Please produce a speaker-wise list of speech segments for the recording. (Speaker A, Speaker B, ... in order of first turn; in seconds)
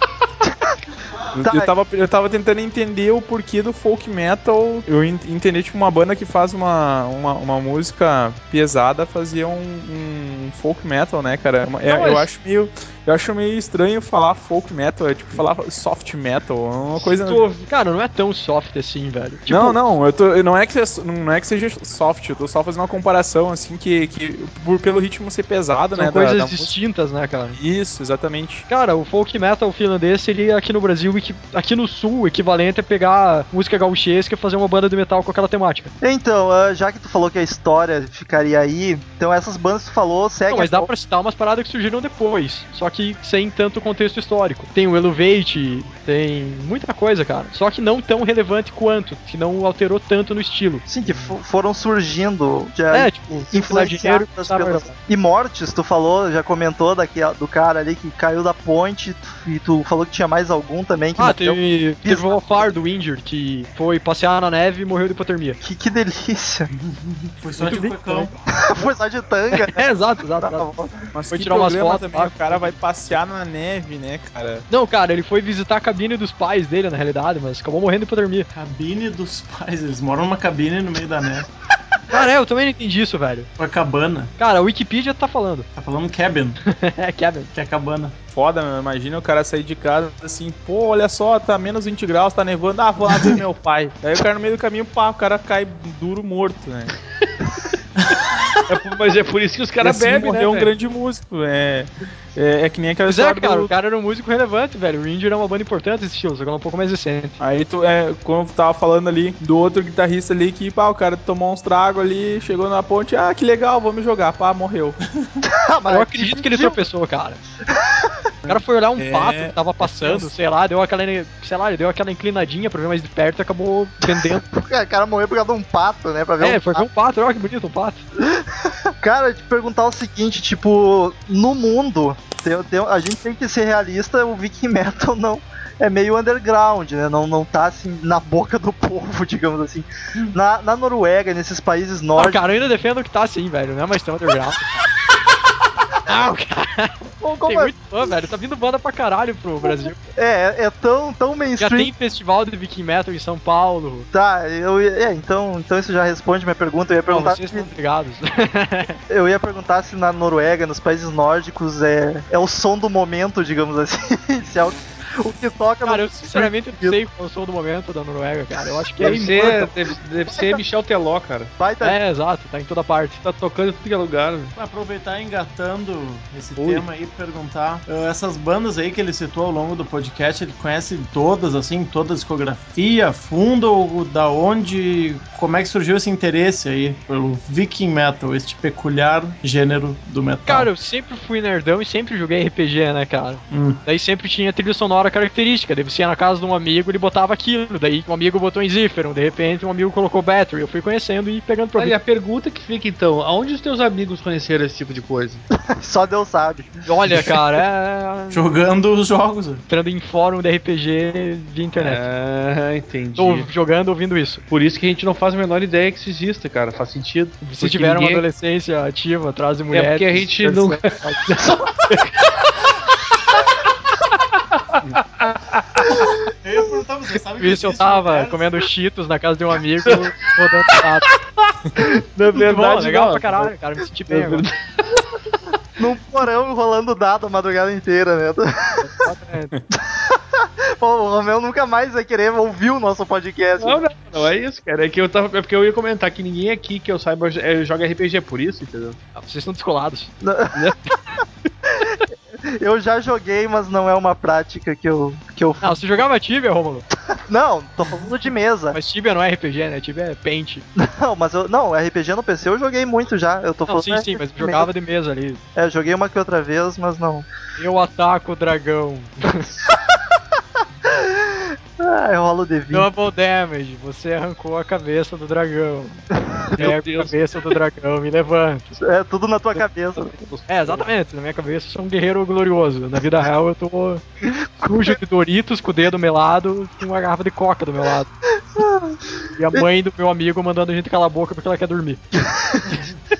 Speaker A: 0.4-0.7, 1.4-1.7, 36.0-40.9, 50.9-62.7, 65.6-66.7, 68.5-69.8, 70.4-71.1, 115.5-116.8, 117.7-118.2, 124.0-126.9, 128.2-142.4, 147.2-147.8, 149.6-151.9, 154.1-157.7, 159.1-167.0, 170.3-170.6, 171.6-172.0, 205.6-206.7, 235.8-238.9, 239.7-243.8, 250.2-250.7, 251.7-255.8, 257.3-258.8, 260.8-264.7, 265.6-267.3, 270.9-272.9, 276.2-276.7, 278.8-280.1, 284.6-285.0, 288.4-289.7, 292.1-292.8
Speaker B: 1.4-17.5, 19.5-26.8, 27.5-28.7, 71.1-74.7, 88.3-96.9, 99.8-103.7, 107.4-115.0, 118.5-120.3
Speaker C: 11.9-12.3, 17.6-19.9, 25.9-27.6, 28.7-35.9, 40.5-50.9, 52.9-55.0, 61.2-65.6, 67.6-68.4, 69.5-70.7, 71.3-72.8, 74.7-78.5, 82.1-83.5, 84.4-85.7, 86.7-87.5, 103.1-107.4, 115.9-117.4, 118.5-124.4, 126.4-128.0, 142.2-144.8, 146.1-150.0, 151.6-154.1, 157.1-159.0, 165.8-169.7, 171.8-173.2, 190.5-202.0, 206.9-208.5, 209.7-212.1, 213.2-214.4, 217.4-221.4, 227.4-231.1, 232.3-234.5, 238.8-239.5, 249.2-250.1, 255.6-256.9, 258.7-260.6, 263.7-265.4, 267.6-269.5, 272.7-276.0, 276.6-278.7, 280.5-284.0, 284.6-288.1, 289.4-292.0
Speaker D: 17.1-17.6, 98.7-100.7, 169.0-171.5, 173.2-174.5, 176.6-176.9, 201.8-205.4, 211.8-213.5, 214.5-218.2, 219.7-222.7, 224.1-226.1, 231.1-233.5, 234.1-235.2, 243.6-249.0, 276.6-277.1, 280.0-280.9
Speaker E: 66.8-68.3, 78.5-81.5, 83.6-84.3, 85.8-86.6, 87.5-88.2, 93.1-93.4, 174.6-190.7, 193.5-193.8, 208.3-209.6, 226.3-228.7